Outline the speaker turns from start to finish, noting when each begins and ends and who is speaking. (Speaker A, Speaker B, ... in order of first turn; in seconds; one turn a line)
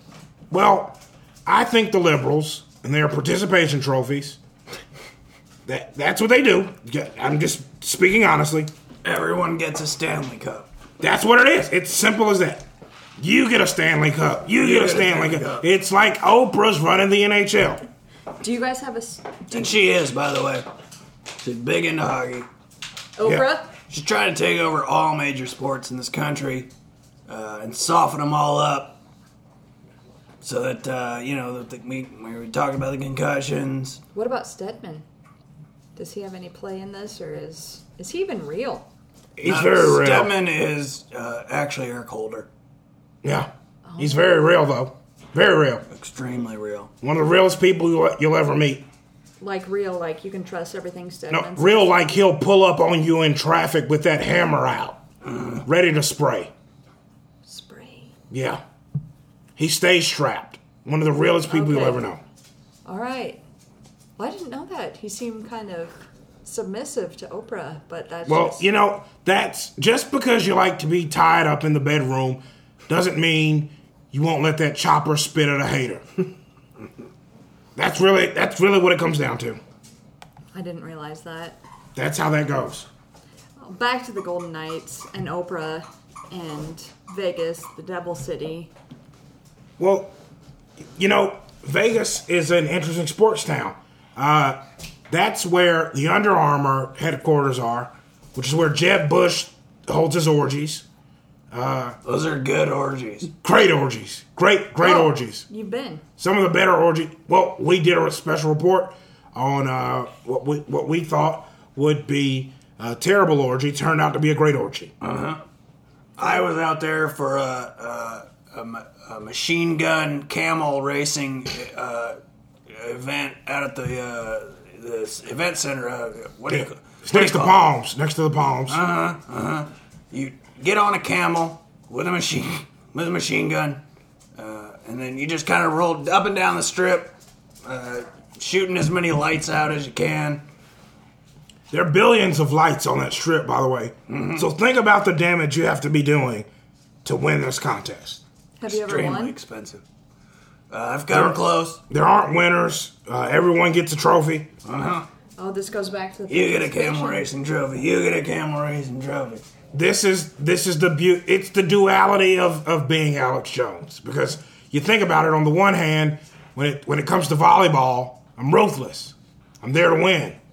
Speaker A: 0.5-4.4
Speaker A: 5.7-8.7
Speaker B: 9.0-10.7
Speaker A: 11.0-12.7
Speaker A: 13.2-17.8
Speaker B: 14.5-15.7
Speaker C: 18.4-19.8
Speaker B: 19.5-20.6
Speaker B: 21.4-22.5
Speaker C: 23.2-23.7
Speaker B: 23.9-26.7
Speaker B: 27.3-29.0
Speaker B: 30.4-34.0
Speaker C: 34.1-35.0
Speaker C: 36.0-38.9
Speaker A: 39.4-40.3
Speaker B: 39.4-42.5
Speaker A: 43.2-45.8
Speaker C: 43.9-44.3
Speaker B: 45.9-46.9
Speaker A: 47.0-48.8
Speaker C: 49.4-51.9
Speaker A: 51.3-55.0
Speaker B: 55.3-55.6
Speaker A: 55.6-56.5
Speaker C: 57.5-58.1
Speaker A: 58.3-58.6
Speaker A: 59.6-62.2
Speaker C: 61.5-62.1
Speaker C: 62.9-63.4
Speaker C: 64.2-68.7
Speaker A: 68.2-76.2
Speaker A: 77.8-79.6
Speaker C: 80.5-81.6
Speaker A: 82.0-82.9
Speaker C: 83.6-88.7
Speaker A: 89.8-90.1
Speaker A: 91.0-100.8
Speaker A: 101.5-102.0
Speaker B: 102.0-103.3
Speaker A: 103.3-105.5
Speaker C: 104.8-106.0
Speaker A: 106.2-114.9
Speaker B: 115.0-115.4
Speaker B: 116.2-122.2
Speaker B: 122.7-127.6
Speaker A: 126.5-128.8
Speaker B: 128.7-133.8
Speaker B: 134.3-140.4
Speaker A: 141.7-146.5
Speaker B: 144.1-144.4
Speaker A: 147.0-148.2
Speaker C: 148.6-149.3
Speaker B: 148.7-149.8
Speaker B: 150.7-151.8
Speaker A: 151.1-151.4
Speaker A: 151.9-154.5
Speaker B: 154.6-155.1
Speaker C: 155.4-157.3
Speaker B: 156.3-159.4
Speaker A: 159.7-170.4